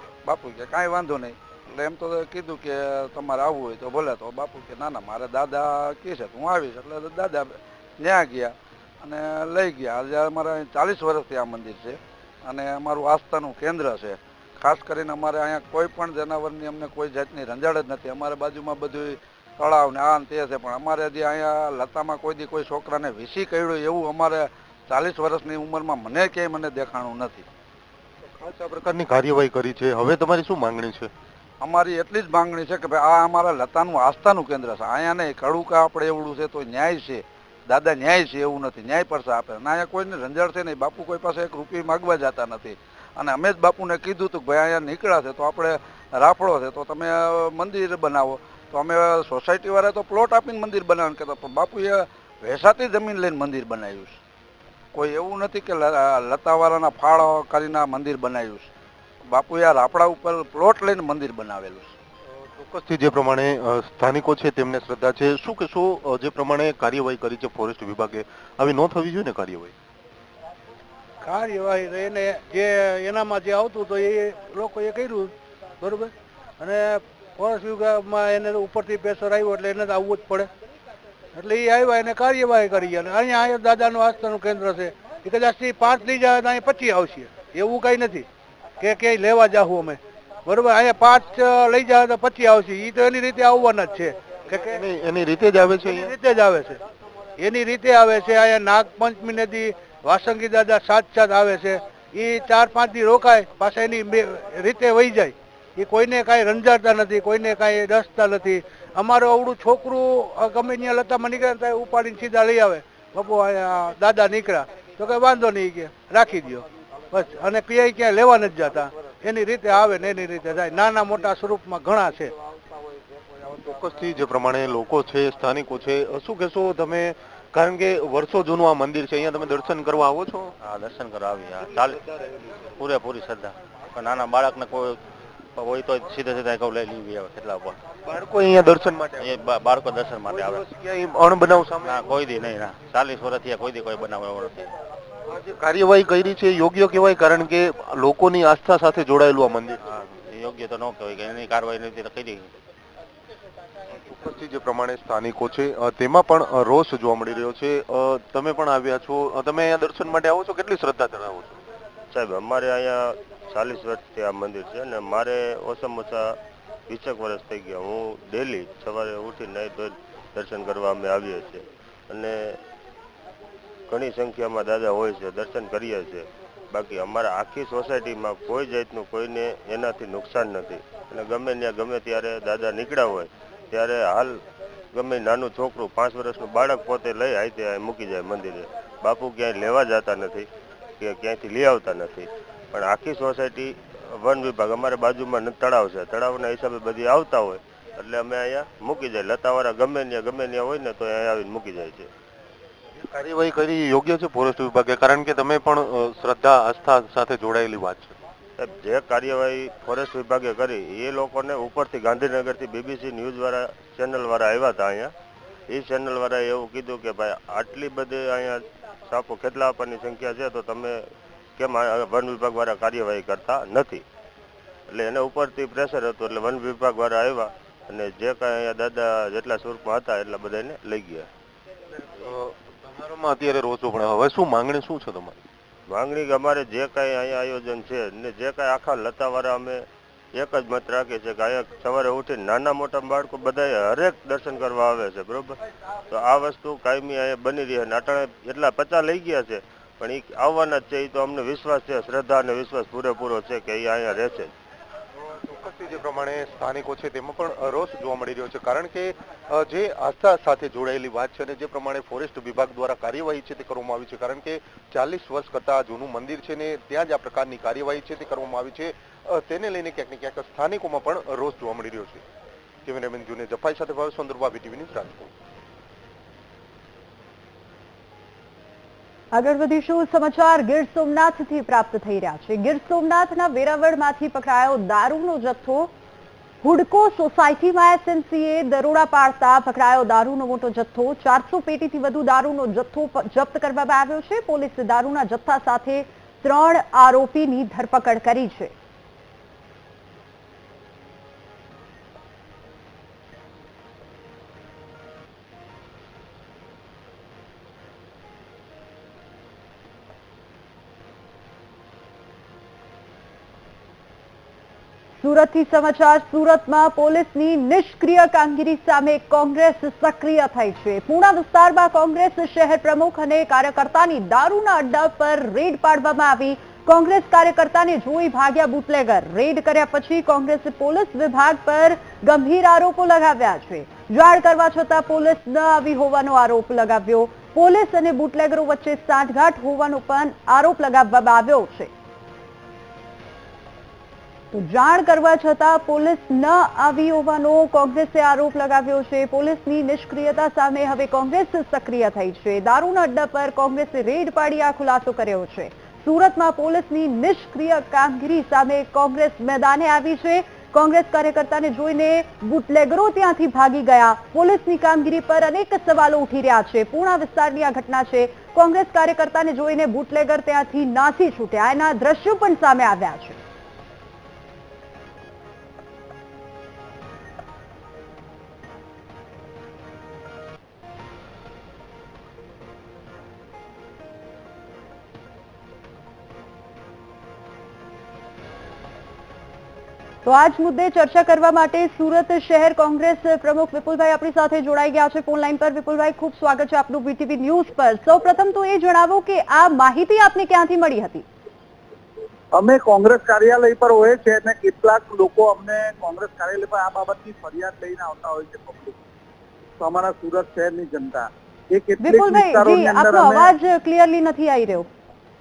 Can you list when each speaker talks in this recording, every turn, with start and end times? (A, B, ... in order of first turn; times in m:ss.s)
0:00.2-0:27.4 A
0:28.3-0:31.1 B
0:31.6-0:54.2 A
0:54.9-0:58.7 A
0:59.3-1:01.9 A
1:02.3-1:09.7 B
1:11.2-1:20.5 C
1:21.3-1:28.2 C
1:28.8-1:34.8 C
1:34.5-1:36.2 B
1:35.9-1:36.8 C
1:37.4-2:02.3 C
2:03.5-2:10.5 B
2:10.6-2:12.0 D
2:11.7-2:12.6 B
2:12.8-2:15.0 D
2:15.6-2:17.8 D
2:18.0-2:19.3 B
2:19.2-2:20.6 D
2:20.2-2:22.1 B
2:21.8-2:24.6 D
2:25.3-2:29.8 B
2:29.8-2:32.5 D
2:33.9-2:41.6 B
2:42.1-2:52.6 E
2:53.9-3:04.4 E
3:04.9-3:10.5 E
3:11.0-3:22.1 E
3:23.0-3:28.2 B
3:28.6-3:35.1 E
3:35.7-3:41.0 E
3:41.6-3:44.0 E
3:44.9-3:51.3 E
3:52.0-3:55.4 B
3:55.9-4:05.6 E
4:06.1-4:14.5 E
4:15.2-4:32.2 B
4:32.8-4:35.3 B
4:39.3-4:45.9 F
4:46.6-4:58.7 F
5:15.2-5:41.9 F
5:44.5-6:13.4 F
6:30.2-6:41.2 F
6:42.5-6:49.0 G
6:49.8-6:53.5 G
6:52.0-6:54.9 F